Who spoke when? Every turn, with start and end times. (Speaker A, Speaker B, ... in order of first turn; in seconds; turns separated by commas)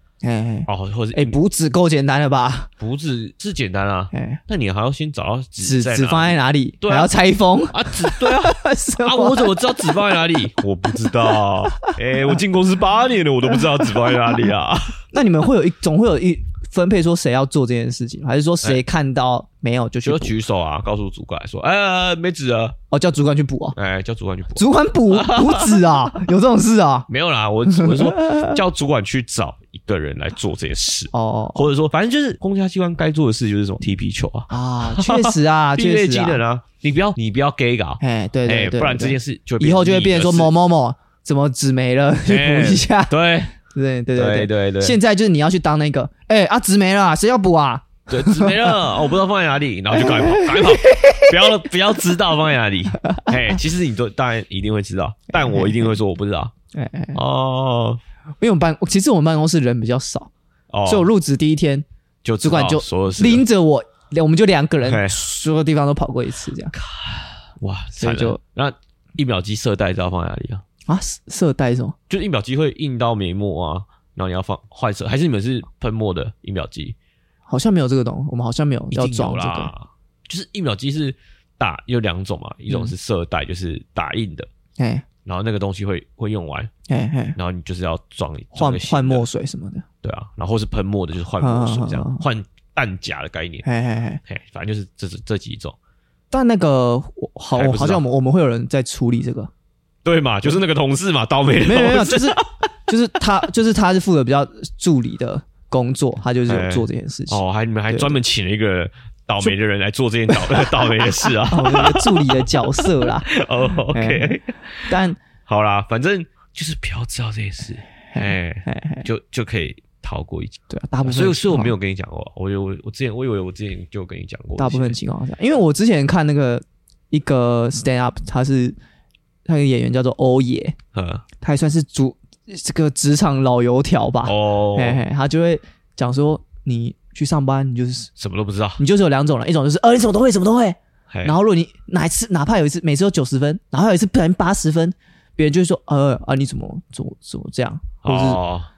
Speaker A: 0.2-2.7, Speaker B: 0.7-1.4, Speaker B: 2.8-7.1, Speaker A: 4.1-4.4, Speaker A: 5.6-10.1, Speaker B: 7.7-15.1, Speaker A: 11.1-11.4, Speaker A: 13.6-14.2, Speaker A: 15.1-20.4, Speaker B: 20.0-22.8, Speaker A: 22.9-23.8, Speaker B: 23.7-25.9, Speaker A: 24.6-27.1, Speaker B: 27.1-40.5, Speaker A: 27.7-28.6, Speaker A: 31.1-31.7, Speaker A: 34.5-36.4, Speaker A: 38.0-48.8, Speaker B: 42.2-43.6, Speaker B: 44.1-45.0, Speaker B: 48.1-56.5, Speaker A: 49.9-51.6, Speaker A: 53.1-53.6, Speaker A: 55.3-55.9, Speaker A: 56.7-57.2, Speaker B: 57.1-58.0, Speaker A: 58.4-60.3, Speaker B: 60.7-61.1, Speaker A: 60.9-61.8, Speaker B: 62.2-63.4, Speaker A: 62.4-66.7, Speaker B: 64.8-65.2, Speaker B: 66.7-70.6, Speaker A: 68.0-68.4, Speaker A: 70.8-71.9, Speaker B: 72.1-76.9, Speaker A: 77.5-79.7, Speaker B: 78.9-84.5, Speaker A: 84.8-85.0, Speaker B: 85.2-86.7, Speaker A: 86.9-87.4, Speaker B: 87.3-89.2, Speaker A: 88.5-89.8, Speaker B: 90.0-93.7, Speaker A: 91.4-92.2, Speaker A: 93.6-94.2, Speaker B: 94.3-95.8, Speaker A: 96.3-99.5, Speaker B: 97.5-98.0, Speaker B: 100.0-102.5, Speaker A: 101.6-108.2, Speaker B: 106.5-125.0, Speaker A: 110.3-113.3, Speaker A: 113.9-115.2, Speaker A: 118.1-119.1, Speaker A: 120.7-121.7, Speaker A: 124.6-128.8, Speaker A: 129.4-130.8, Speaker B: 130.9-131.2, Speaker A: 131.4-138.1, Speaker B: 134.2-135.0, Speaker B: 138.2-138.8, Speaker A: 138.8-148.4, Speaker B: 141.1-141.3, Speaker B: 148.0-148.7